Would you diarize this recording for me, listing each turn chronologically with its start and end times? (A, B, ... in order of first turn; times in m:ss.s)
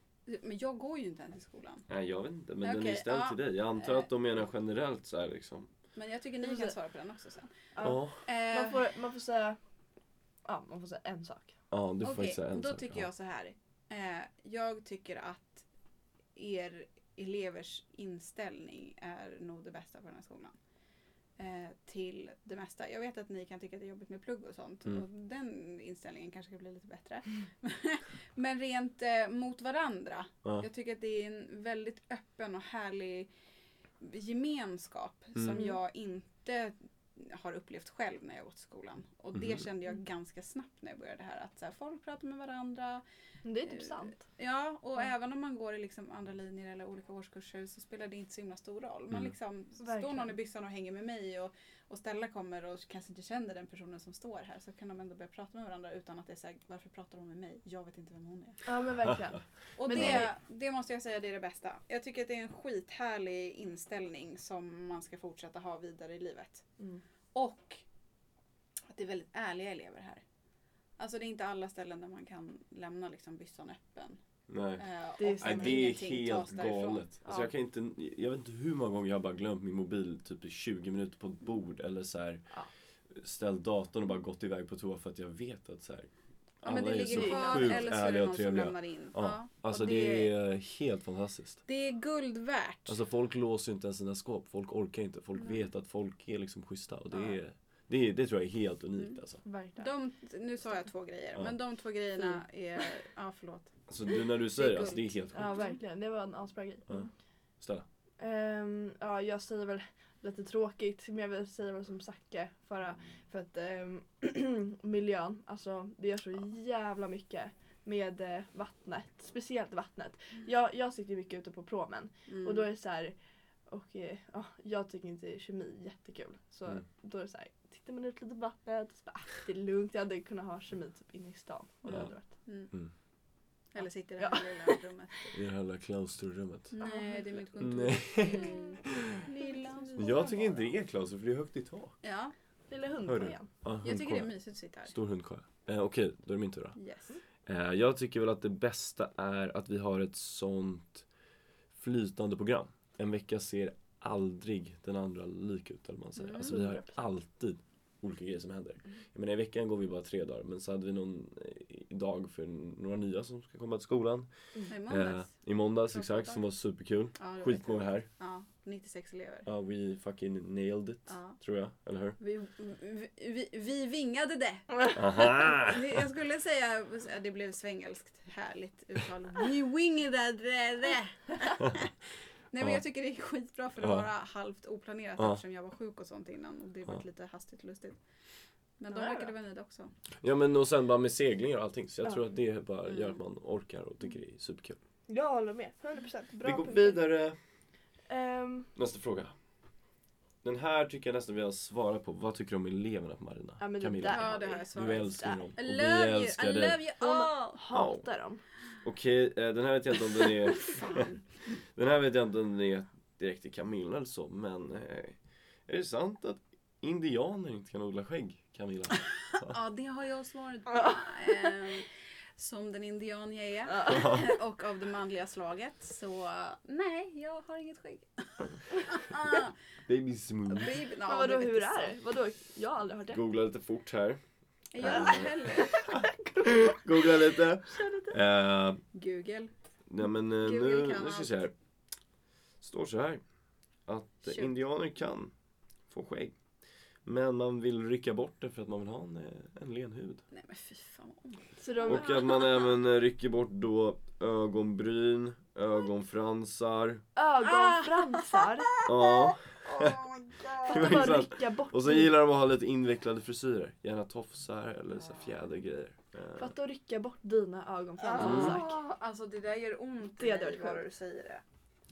0:00.3-0:01.9 A
0:01.9-0:05.7 B
0:02.6-0:04.1 A
0:06.0-0:07.5 A
0:06.4-0:06.7 C
0:07.8-0:09.6 C
0:07.8-0:08.2 B
0:08.2-0:08.8 A
0:10.4-0:11.6 C
0:11.7-0:13.1 B
0:12.0-0:15.6 A
0:16.4-0:20.6 A
0:21.4-0:33.3 A
0:34.0-0:43.0 A
0:35.4-0:35.6 B
0:39.4-0:39.6 B
0:43.4-0:44.2 C
0:43.6-0:58.6 A
0:49.8-0:50.3 C
0:58.6-1:00.3 C
0:59.8-1:06.6 A
0:59.9-1:00.3 B
1:07.3-1:07.8 A
1:08.9-1:10.2 A
1:11.0-1:14.2 A
1:14.5-1:14.8 B
1:14.8-1:17.5 A
1:15.2-1:16.0 C
1:15.4-1:22.4 B
1:23.1-1:26.1 B
1:26.6-1:31.6 B
1:26.6-1:30.3 A
1:27.1-1:27.9 C
1:31.7-1:33.0 A
1:32.9-1:39.4 B
1:39.4-1:39.9 C
1:39.8-1:43.7 A
1:43.9-1:45.6 B
1:44.6-1:45.0 A
1:44.7-1:47.1 C
1:48.2-2:03.2 C
2:02.3-2:02.7 A
2:03.7-2:12.3 C
2:11.9-2:12.7 A
2:13.7-2:15.3 A
2:14.2-2:14.8 C
2:15.3-2:16.7 B
2:16.7-2:20.6 A
2:16.8-2:17.4 C
2:17.6-2:19.2 B
2:18.2-2:18.8 C
2:19.8-2:20.1 C
2:20.0-2:22.0 B
2:22.0-2:22.3 A
2:22.7-2:23.5 C
2:23.0-2:24.3 B
2:23.8-2:24.9 A
2:24.9-2:26.8 B
2:26.8-2:27.1 A
2:27.5-2:31.0 B
2:31.8-2:44.3 B
2:36.2-2:36.6 A
2:36.4-2:36.9 C
2:44.7-2:45.3 A
2:44.9-2:48.1 B
2:45.9-2:46.4 A
2:47.2-2:49.5 A
2:49.5-2:52.2 B
2:51.1-2:51.4 A
2:52.2-3:01.9 A
2:55.0-2:55.8 B
3:02.5-3:08.0 A
3:03.8-3:04.1 B
3:08.8-3:09.9 A
3:08.9-3:09.3 C
3:10.2-3:14.8 B
3:12.9-3:13.2 A
3:15.1-3:17.0 C
3:16.4-3:17.4 B
3:18.1-3:18.7 C
3:18.8-3:19.3 B
3:20.4-3:26.8 B
3:23.6-3:25.4 C
3:24.1-3:27.5 A
3:27.0-3:28.4 C
3:27.7-3:28.0 B
3:28.8-3:31.1 B
3:31.8-3:39.6 B
3:39.3-3:49.5 A
3:43.7-3:44.1 C
3:43.9-3:44.2 B
3:49.9-3:50.7 B
3:50.5-3:52.0 A
3:51.1-3:53.2 C
3:53.1-3:54.2 B
3:54.7-3:55.8 A
3:54.8-3:55.3 B
3:54.8-3:57.1 C
3:55.9-3:58.8 B
3:57.7-3:58.2 C
3:58.9-3:59.5 A
3:59.9-4:01.5 B
4:00.4-4:01.4 A
4:02.6-4:03.2 B
4:03.9-4:05.3 B
4:04.2-4:04.5 A
4:05.9-4:06.4 B
4:07.0-4:10.2 B
4:10.3-4:12.5 A
4:11.6-4:12.1 C
4:11.9-4:17.0 B
4:17.2-4:18.8 C
4:17.4-4:21.0 A
4:18.8-4:20.0 B
4:20.7-4:22.1 C
4:20.7-4:26.5 B
4:25.0-4:25.3 A
4:26.4-4:28.8 C
4:28.0-4:31.4 A
4:28.2-4:28.6 B
4:30.2-4:30.9 C